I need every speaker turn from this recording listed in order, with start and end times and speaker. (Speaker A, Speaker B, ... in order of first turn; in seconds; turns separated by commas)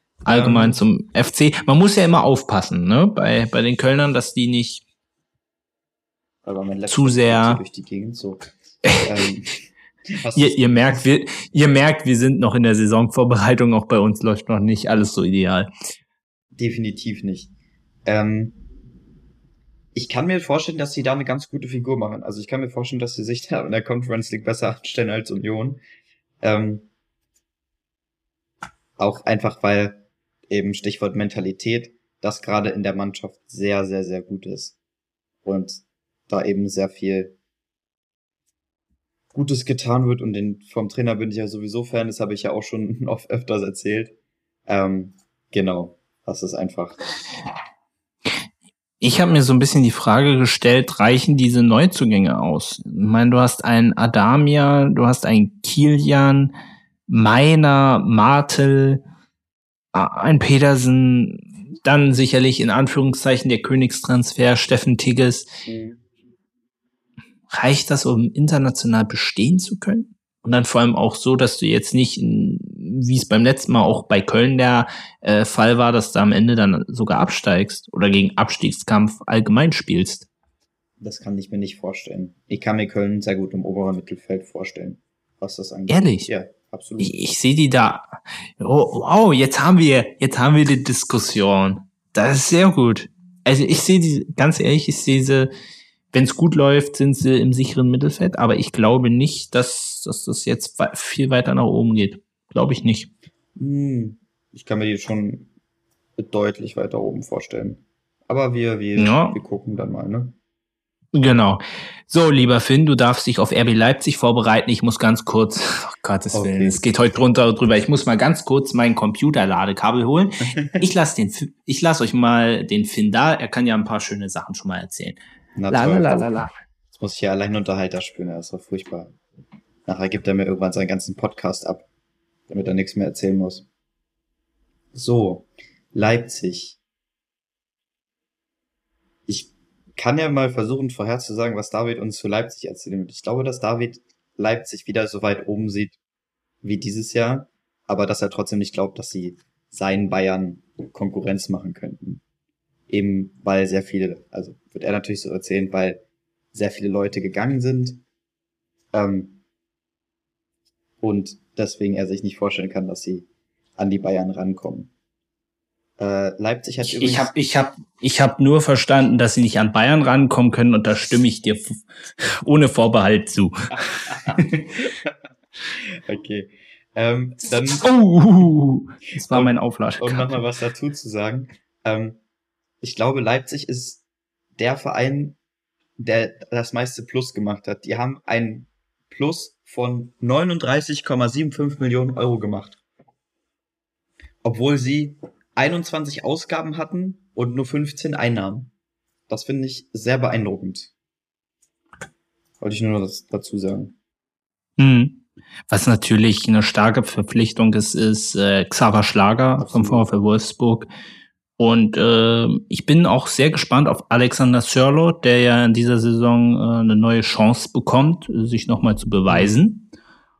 Speaker A: 0.2-0.8, Speaker B: 0.2-4.8, Speaker A: 6.4-8.4, Speaker B: 6.9-7.6, Speaker A: 9.0-9.5, Speaker A: 10.1-11.0, Speaker B: 10.3-15.7, Speaker A: 16.5-17.5, Speaker A: 18.1-18.6, Speaker A: 19.9-25.8, Speaker A: 26.4-26.9, Speaker A: 29.0-34.8, Speaker A: 35.4-37.3, Speaker A: 39.3-44.1, Speaker A: 44.7-47.0, Speaker B: 49.0-56.5, Speaker B: 57.1-59.0, Speaker B: 59.9-65.5, Speaker A: 65.7-66.0, Speaker B: 67.5-80.3, Speaker A: 81.0-87.1, Speaker B: 85.9-86.3, Speaker B: 87.0-95.5, Speaker B: 96.1-103.1, Speaker A: 103.5-105.5, Speaker A: 106.2-110.4, Speaker B: 109.0-109.4, Speaker B: 111.1-125.2, Speaker A: 116.3-116.8, Speaker A: 120.5-120.9, Speaker A: 125.5-126.3, Speaker B: 125.7-126.5, Speaker A: 127.0-129.2, Speaker A: 129.9-131.9, Speaker A: 132.5-133.7, Speaker A: 134.9-136.8, Speaker A: 139.3-146.0, Speaker A: 146.6-152.2, Speaker A: 152.9-156.0, Speaker A: 156.5-158.0, Speaker A: 158.9-159.4, Speaker A: 161.0-164.9, Speaker A: 166.0-167.3, Speaker B: 166.8-174.4, Speaker A: 174.2-175.1, Speaker A: 175.8-177.9, Speaker B: 177.7-180.4, Speaker A: 179.2-182.2, Speaker A: 182.8-184.0, Speaker A: 184.6-185.4, Speaker A: 186.0-192.8, Speaker A: 194.4-198.7, Speaker A: 199.3-200.9, Speaker A: 202.6-203.9, Speaker B: 204.8-210.9, Speaker A: 209.6-210.1, Speaker B: 211.6-219.9, Speaker A: 219.3-219.5